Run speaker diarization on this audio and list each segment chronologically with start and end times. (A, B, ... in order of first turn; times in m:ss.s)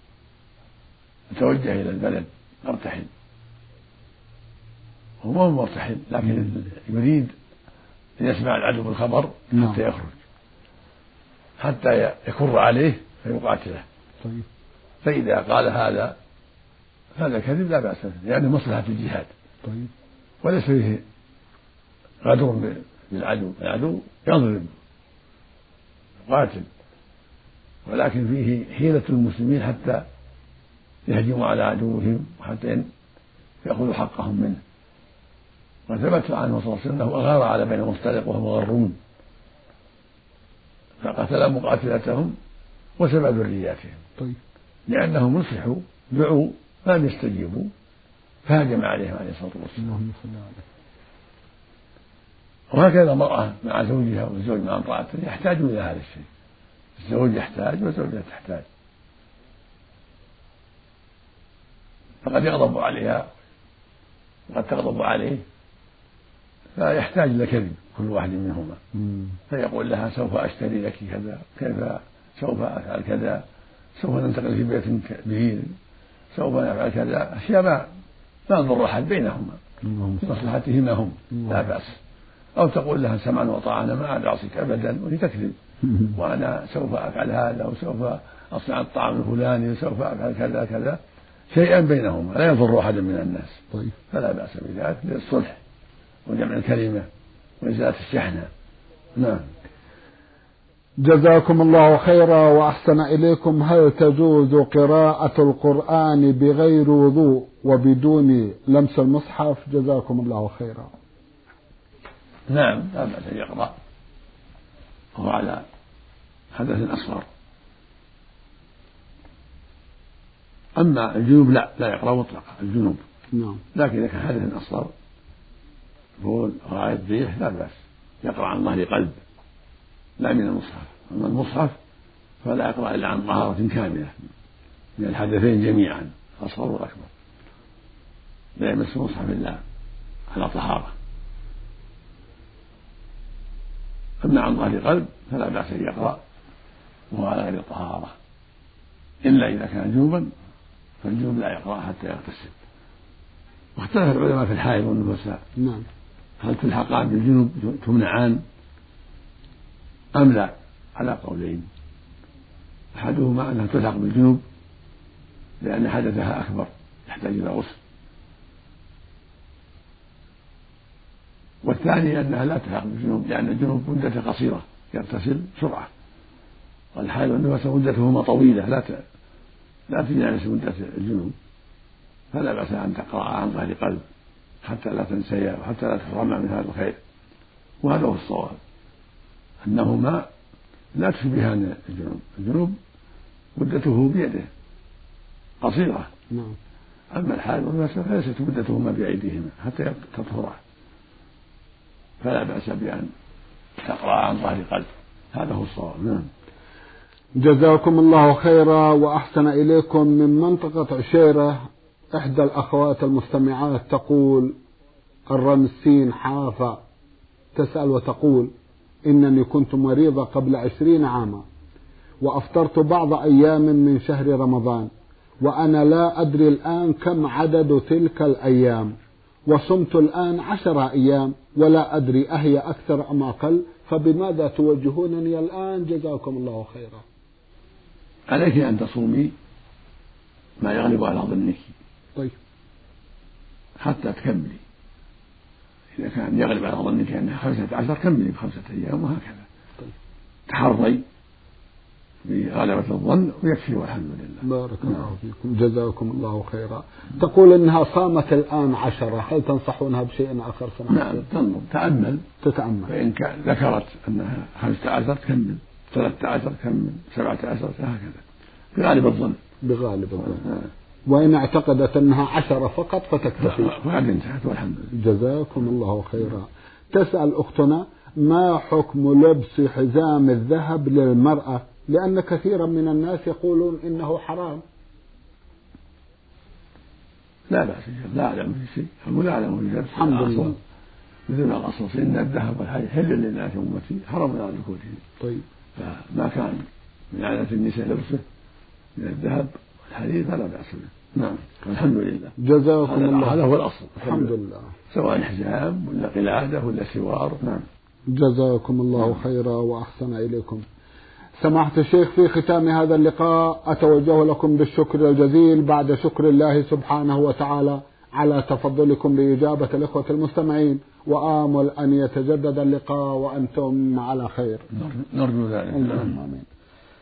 0:01.3-0:03.1 A
0:05.2-0:07.3 A
0:08.2-0:10.2 A
0:09.5-0:09.8 B
0:11.6-0:13.8 A
0:15.0-0:16.2 A
0:17.2-0:19.3 A
0:19.6-0:19.9 B
0:20.4-0:21.0 A
0:22.2-0:24.7 A
0:26.3-0:26.7 A
0:27.9-0:30.1 A
0:31.1-0:32.9 A
0:33.6-0:34.6 A
0:35.9-0:39.0 A
0:41.0-0:42.4 A
0:43.0-0:44.0 A
0:44.9-0:47.7 A
0:48.5-0:49.9 A
0:49.8-0:50.6 B
0:52.7-0:56.3 A
0:57.0-0:58.7 A
1:02.2-1:03.3 A
1:04.5-1:05.4 A
1:06.8-1:08.8 A
1:08.9-1:09.4 B
1:09.5-1:13.4 A
1:14.0-1:15.7 A
1:16.3-1:17.9 A
1:18.5-1:19.6 A
1:19.8-1:20.4 B
1:20.2-1:22.0 A
1:21.3-1:21.6 B
1:22.6-1:31.0 A
1:25.8-1:26.2 B
1:31.5-1:35.6 A
1:36.3-1:37.1 A
1:37.6-1:38.5 A
1:39.2-1:39.5 A
1:41.0-1:50.9 B
1:52.5-1:53.7 A
1:55.2-1:55.6 A
1:56.6-1:57.3 A
2:00.8-2:03.0 A
2:03.3-2:03.6 B
2:03.7-2:04.9 A
2:06.2-2:09.2 A
2:10.2-2:11.8 A
2:12.4-2:14.2 A
2:15.0-2:17.1 A
2:18.6-2:19.6 A
2:20.3-2:20.9 A
2:24.2-2:26.2 A
2:27.1-2:28.1 A
2:29.2-2:30.3 A
2:31.0-2:32.6 A
2:33.8-2:35.4 A
2:35.6-2:35.9 B
2:36.4-2:38.4 A
2:40.2-2:41.7 A
2:43.0-2:44.4 A
2:45.6-2:47.8 A
2:51.6-2:55.9 A
2:57.0-2:59.0 A
2:59.9-3:01.4 A
3:02.3-3:04.0 A
3:04.6-3:07.0 A
3:07.8-3:08.6 A
3:09.6-3:10.3 A
3:11.0-3:12.8 A
3:13.6-3:14.5 A
3:15.6-3:16.1 A
3:16.3-3:16.6 B
3:17.1-3:20.6 A
3:22.2-3:23.1 A
3:23.8-3:26.3 A
3:27.4-3:31.6 B
3:32.2-3:34.6 B
3:35.3-3:36.8 B
3:37.6-3:38.5 B
3:39.1-3:41.4 B
3:42.2-3:44.9 B
3:45.4-3:49.0 B
3:49.5-3:57.0 B
3:58.3-3:59.3 A
4:00.6-4:01.8 A
4:03.8-4:04.6 A
4:06.0-4:09.5 A
4:10.5-4:11.0 A
4:12.2-4:15.0 A
4:14.4-4:21.3 B
4:20.9-4:22.2 A
4:22.4-4:22.9 B
4:22.9-4:28.2 A
4:28.8-4:29.4 A
4:29.6-4:30.5 B
4:30.3-4:30.7 A
4:31.1-4:33.8 B
4:33.4-4:34.9 A
4:34.9-4:44.6 B
4:47.5-4:50.6 A
4:49.9-4:50.6 B
4:51.3-4:55.0 A
4:55.2-4:55.4 B
4:55.8-4:58.2 A
4:59.0-5:02.4 A
5:02.4-5:03.4 B
5:02.9-5:04.3 A
5:04.0-5:04.7 B
5:04.9-5:07.7 A
5:08.1-5:10.6 B
5:11.4-5:24.7 B
5:24.7-5:26.2 A
5:25.7-5:26.5 B